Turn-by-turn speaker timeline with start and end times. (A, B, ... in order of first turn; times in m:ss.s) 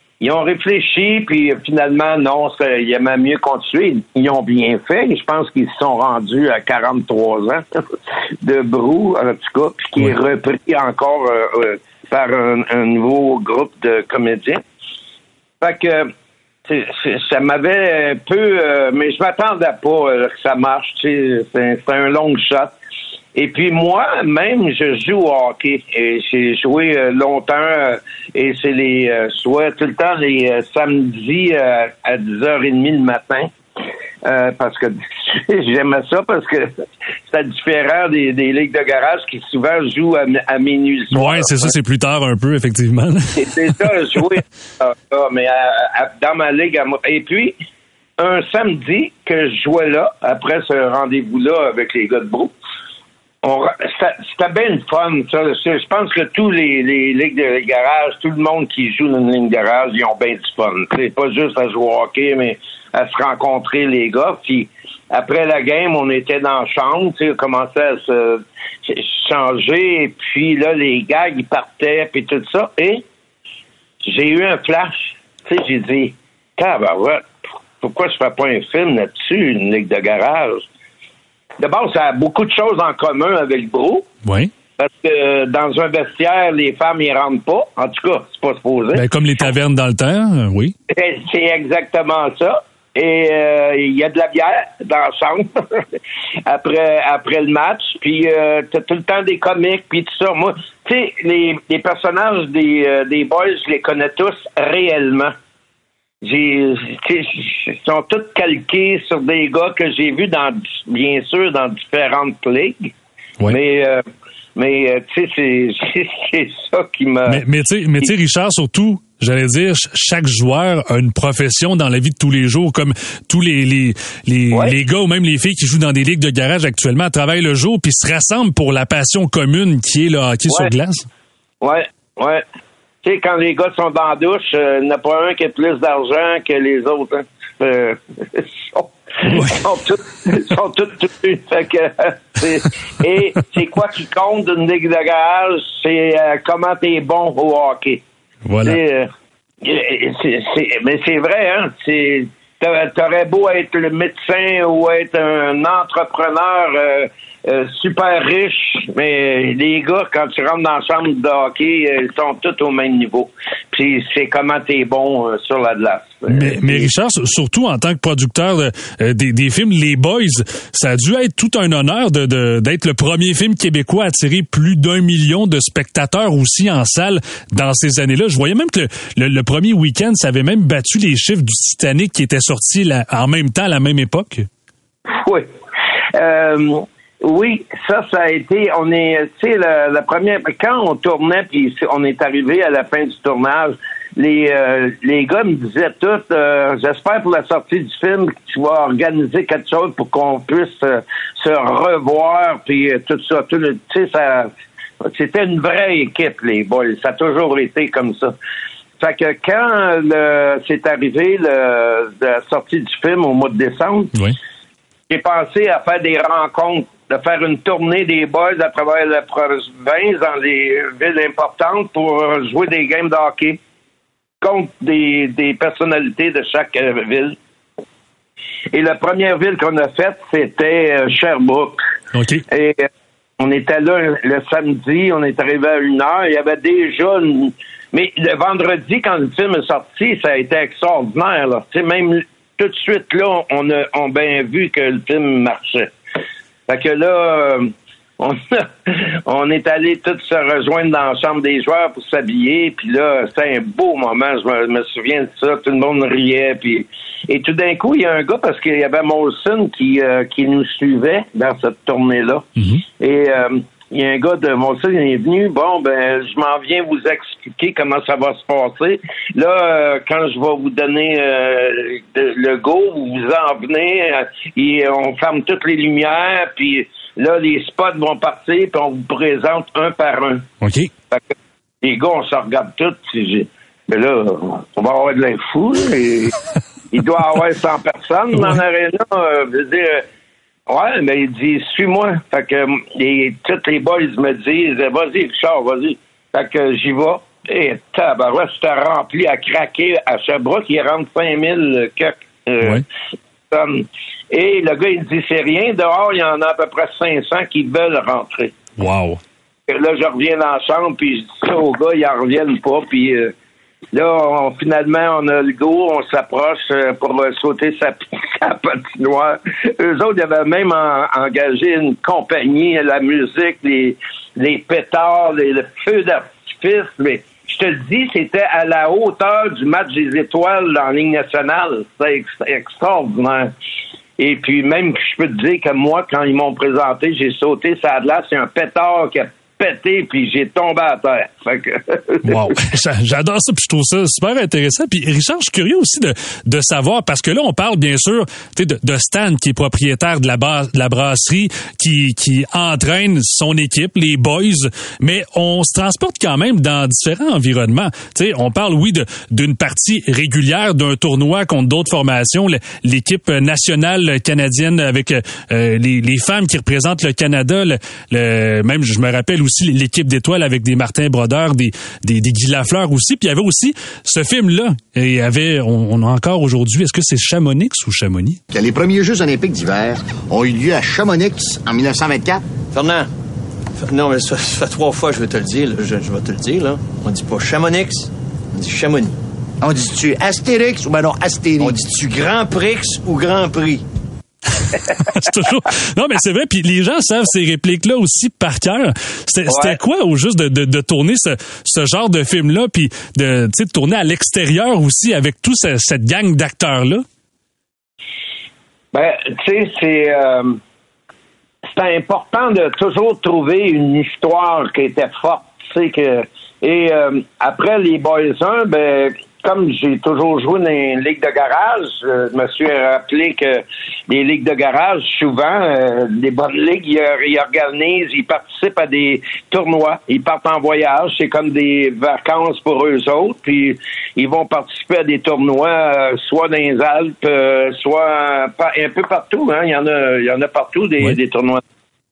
0:00.2-0:07.6 A
0:08.4-0:14.6 A
0:15.6-0:16.1 A
0:16.7-0:22.7 A
0:23.3-0:33.5 A
0:34.2-0:41.6 A
0:41.1-0:43.7 B
0:43.3-0:47.6 A
0:48.2-0:52.5 A
0:53.4-1:13.0 A
1:14.0-1:17.2 A
1:17.8-1:20.6 A
1:21.6-1:24.1 A
1:24.2-1:24.5 B
1:24.8-1:29.0 A
1:28.9-1:30.7 B
1:30.9-1:35.8 A
1:36.4-1:45.3 A
1:46.2-1:52.9 A
1:53.5-1:54.0 A
1:54.6-1:57.4 A
1:57.3-2:11.1 B
2:11.6-2:12.4 A
2:13.0-2:28.0 A
2:19.2-2:19.6 B
2:28.4-2:28.8 B
2:28.6-2:29.1 A
2:29.6-2:46.9 A
2:46.3-3:04.5 B
3:05.1-3:05.5 A
3:06.1-3:24.5 A
3:25.0-3:28.3 A
3:29.0-3:34.1 A
3:35.1-3:43.6 A
3:44.4-3:47.4 A
3:48.7-3:51.8 A
3:52.1-3:52.4 B
3:52.5-3:52.9 A
3:53.4-4:05.9 A
4:06.7-4:22.4 A
4:22.6-4:22.8 B
4:23.0-4:40.4 A
4:40.6-4:40.9 B
4:41.8-4:46.3 A
4:46.9-4:50.0 A
4:50.7-5:02.8 A
5:03.5-5:08.5 A
5:08.8-5:09.2 B
5:09.7-5:13.3 A
5:13.9-5:33.5 A
5:34.2-5:42.5 A
5:42.2-6:18.4 B
6:18.5-6:22.4 C
6:22.7-6:23.1 D
6:23.8-6:29.1 D
6:29.6-6:31.8 C
6:30.8-6:33.8 D
6:35.0-6:47.0 B
6:39.5-6:39.8 A
6:48.9-6:50.6 A
6:51.7-7:21.6 A